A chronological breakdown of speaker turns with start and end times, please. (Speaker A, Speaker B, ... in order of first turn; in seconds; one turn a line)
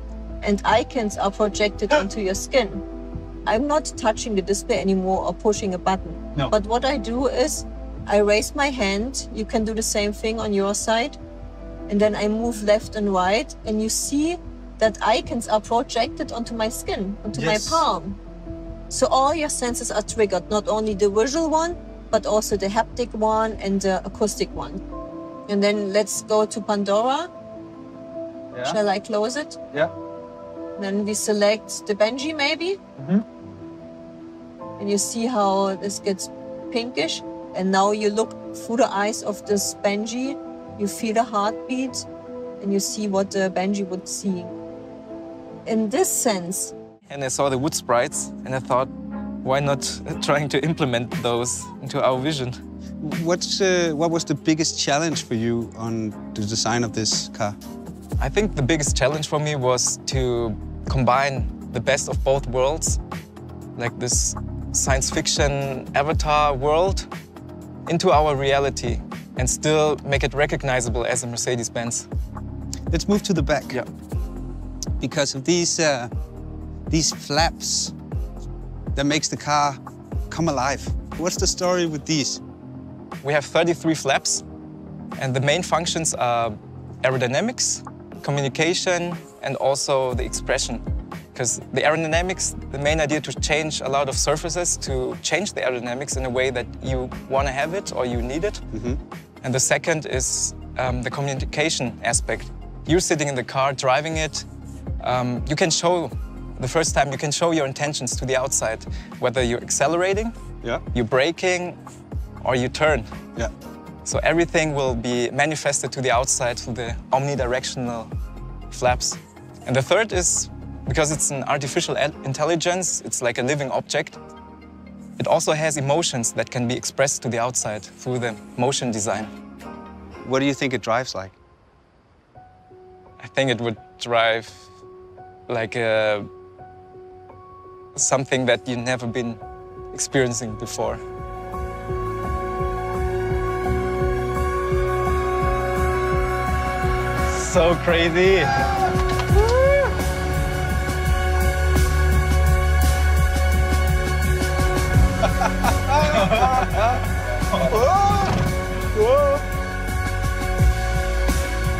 Speaker A: 0.4-2.8
Speaker A: 3.5-11.2
Speaker A: 11.9-18.2
Speaker B: 17.3-17.9
Speaker A: 18.9-24.8
Speaker A: 25.5-27.3
Speaker B: 28.5-28.8
Speaker A: 28.6-29.6
Speaker A: 30.8-32.8
Speaker A: 34.8-42.0
Speaker A: 42.6-44.5
Speaker A: 45.6-46.7
Speaker C: 47.1-48.9
Speaker C: 49.4-52.6
Speaker B: 53.0-57.5
Speaker C: 58.2-63.0
Speaker C: 63.8-67.1
Speaker C: 67.9-72.1
Speaker B: 72.9-73.8
Speaker B: 75.0-76.1
Speaker B: 76.9-77.9
Speaker B: 78.9-82.4
Speaker C: 83.2-84.4
Speaker C: 85.2-90.8
Speaker C: 91.3-98.6
Speaker B: 98.7-99.0
Speaker C: 99.4-104.5
Speaker C: 105.0-110.3
Speaker C: 110.9-111.8
Speaker C: 112.4-113.1
Speaker C: 114.0-118.1
Speaker C: 118.7-124.2
Speaker C: 125.2-129.3
Speaker B: 130.2-131.3
Speaker C: 133.2-134.7
Speaker C: 135.5-136.3
Speaker C: 137.9-139.4
Speaker C: 139.9-141.0
Speaker C: 147.3-148.5
Speaker C: 155.9-158.3